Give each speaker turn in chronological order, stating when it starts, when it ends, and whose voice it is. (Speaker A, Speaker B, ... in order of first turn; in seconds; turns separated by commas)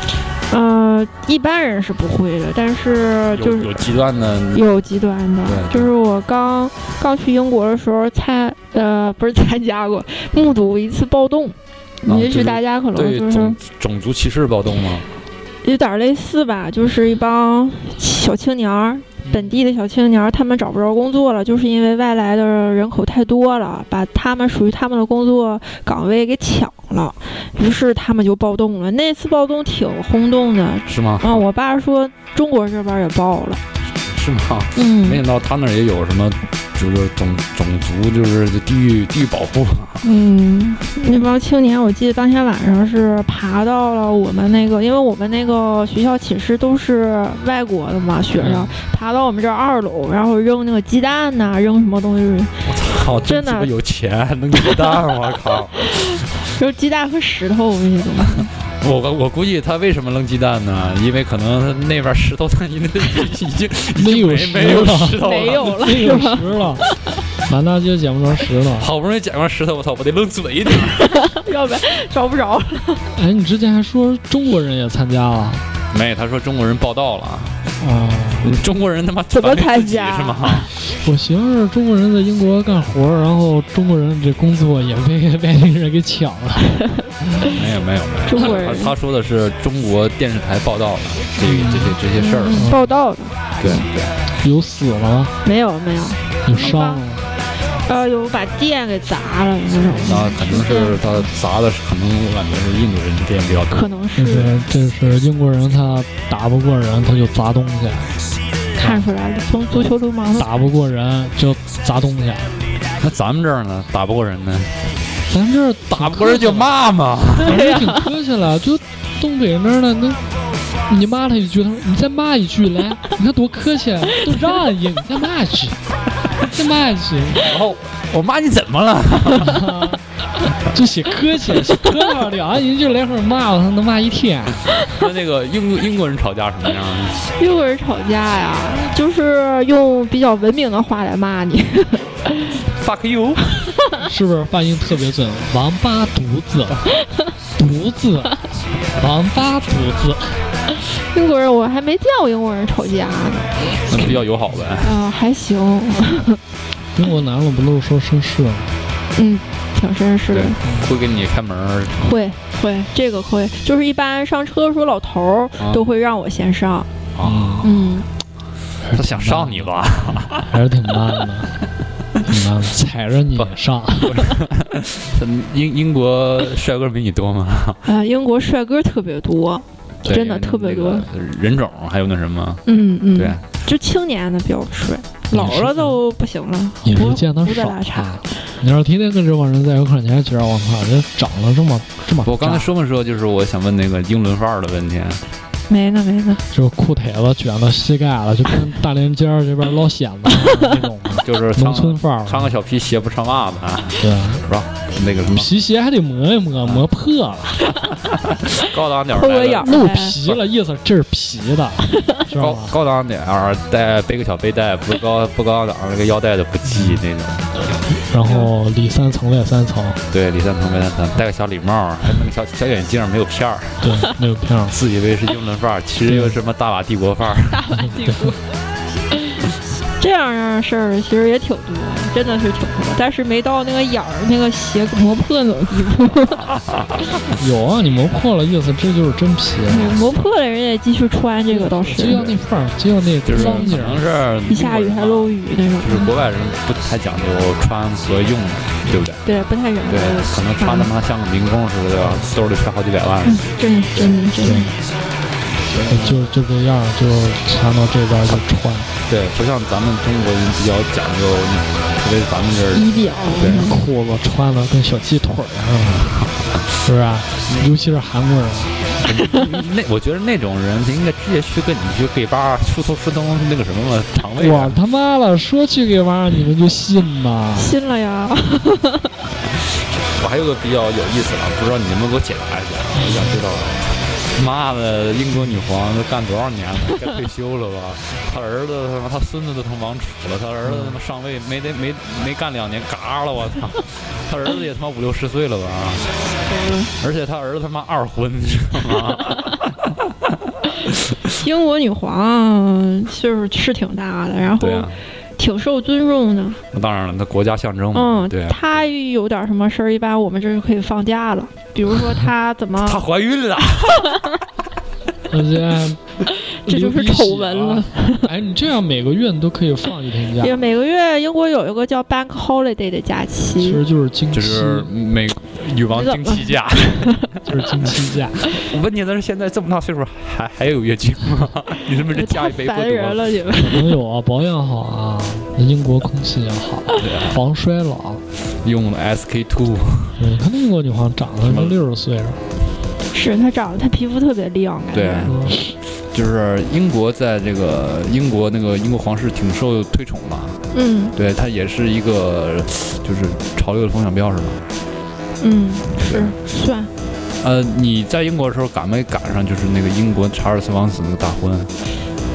Speaker A: 0.5-3.9, Speaker B: 3.3-4.7, Speaker A: 4.5-13.6, Speaker B: 5.5-5.9, Speaker B: 12.1-15.1, Speaker A: 15.6-33.6, Speaker C: 19.3-19.5, Speaker B: 30.9-31.5, Speaker B: 34.0-40.0, Speaker A: 34.8-35.2, Speaker A: 40.0-53.7, Speaker C: 48.4-48.7, Speaker B: 52.6-56.3, Speaker A: 54.6-55.0, Speaker A: 55.8-58.5, Speaker B: 58.8-65.9, Speaker C: 64.0-66.8, Speaker A: 65.2-66.6, Speaker C: 67.4-68.9, Speaker B: 68.8-71.2, Speaker A: 70.9-73.1, Speaker C: 73.2-75.7, Speaker B: 75.9-77.6, Speaker C: 77.8-78.6, Speaker B: 78.4-80.7, Speaker A: 79.3-80.7, Speaker C: 80.9-86.8, Speaker B: 87.5-92.7, Speaker A: 88.3-88.9, Speaker C: 91.4-92.0, Speaker A: 92.2-93.9, Speaker C: 92.5-92.8, Speaker B: 93.6-94.2, Speaker C: 94.4-95.3, Speaker A: 95.4-97.0, Speaker C: 96.4-97.3, Speaker A: 97.8-101.2, Speaker B: 100.0-103.9, Speaker A: 103.7-104.5, Speaker C: 104.2-108.2, Speaker C: 108.8-109.1, Speaker A: 108.8-110.5, Speaker C: 109.7-112.5, Speaker B: 113.0-114.8, Speaker C: 115.3-116.7, Speaker B: 115.9-117.6, Speaker C: 117.4-120.2, Speaker A: 117.5-118.1, Speaker C: 120.9-125.8, Speaker C: 126.5-127.4, Speaker B: 127.4-129.6, Speaker C: 129.4-130.0, Speaker C: 130.6-134.7, Speaker B: 134.9-137.3, Speaker A: 137.4-142.6, Speaker B: 142.7-143.8, Speaker C: 144.0-146.9, Speaker C: 147.6-148.4, Speaker C: 148.9-150.4, Speaker A: 150.9-154.2, Speaker B: 153.9-155.0, Speaker A: 154.8-156.4, Speaker C: 156.9-158.7, Speaker A: 159.2-160.6, Speaker B: 160.3-162.0, Speaker C: 160.6-160.9, Speaker A: 162.0-166.9, Speaker B: 165.6-165.8, Speaker B: 167.1-167.8, Speaker C: 167.2-167.7, Speaker A: 167.6-168.1, Speaker C: 168.8-169.7, Speaker B: 168.9-170.5, Speaker C: 170.3-171.6, Speaker C: 172.3-174.2, Speaker B: 173.3-177.8, Speaker A: 177.8-181.1, Speaker B: 180.1-183.4, Speaker A: 182.7-188.4, Speaker C: 185.3-186.0, Speaker C: 186.8-192.7, Speaker B: 192.2-195.2, Speaker A: 195.7-196.4, Speaker C: 196.5-202.5, Speaker B: 201.2-205.5, Speaker C: 204.0-204.4, Speaker C: 205.3-207.6, Speaker B: 208.5-209.7, Speaker A: 209.1-210.2, Speaker C: 209.6-212.7, Speaker B: 212.4-217.6, Speaker C: 216.7-217.0, Speaker C: 217.9-220.0, Speaker A: 218.2-218.5, Speaker B: 220.1-223.9, Speaker C: 223.8-224.8, Speaker B: 224.7-227.7, Speaker C: 226.1-226.3, Speaker A: 227.5-228.4, Speaker C: 227.7-228.3, Speaker A: 230.0-236.5, Speaker B: 236.4-237.2, Speaker C: 237.4-240.0, Speaker A: 239.7-242.3, Speaker C: 241.5-244.0, Speaker B: 243.2-249.3, Speaker A: 243.3-243.7, Speaker A: 244.5-246.1, Speaker A: 249.2-250.9, Speaker B: 249.9-254.1, Speaker C: 252.0-252.3, Speaker A: 253.2-254.8, Speaker C: 254.4-254.7, Speaker B: 255.7-256.2, Speaker C: 255.9-258.9, Speaker B: 259.1-263.7, Speaker A: 262.7-263.8, Speaker C: 263.4-266.2, Speaker B: 266.0-266.6, Speaker C: 266.8-268.8, Speaker B: 267.5-267.7, Speaker B: 269.0-274.8, Speaker C: 274.4-277.8, Speaker A: 277.6-279.1, Speaker B: 280.1-296.1, Speaker C: 283.0-283.4, Speaker C: 290.6-291.0, Speaker A: 296.4-296.9, Speaker B: 297.0-301.4, Speaker A: 301.4-306.6, Speaker B: 304.6-305.0, Speaker B: 306.7-308.8, Speaker A: 307.9-313.0, Speaker B: 312.8-314.2, Speaker C: 315.3-316.0, Speaker A: 316.4-318.3, Speaker C: 316.7-320.6, Speaker A: 320.4-323.8, Speaker C: 323.6-324.9, Speaker B: 324.3-327.3, Speaker A: 325.9-327.3, Speaker C: 327.4-328.5, Speaker B: 328.5-333.4, Speaker A: 331.9-334.0, Speaker C: 333.6-338.2, Speaker B: 337.0-337.4, Speaker B: 338.5-340.2, Speaker C: 340.2-342.4, Speaker B: 341.4-341.8, Speaker B: 342.7-343.0, Speaker A: 343.1-345.4, Speaker B: 344.9-350.6, Speaker C: 345.2-345.6, Speaker A: 350.7-351.1, Speaker B: 351.1-354.6, Speaker A: 355.4-356.9, Speaker B: 356.1-356.4, Speaker B: 357.4-361.7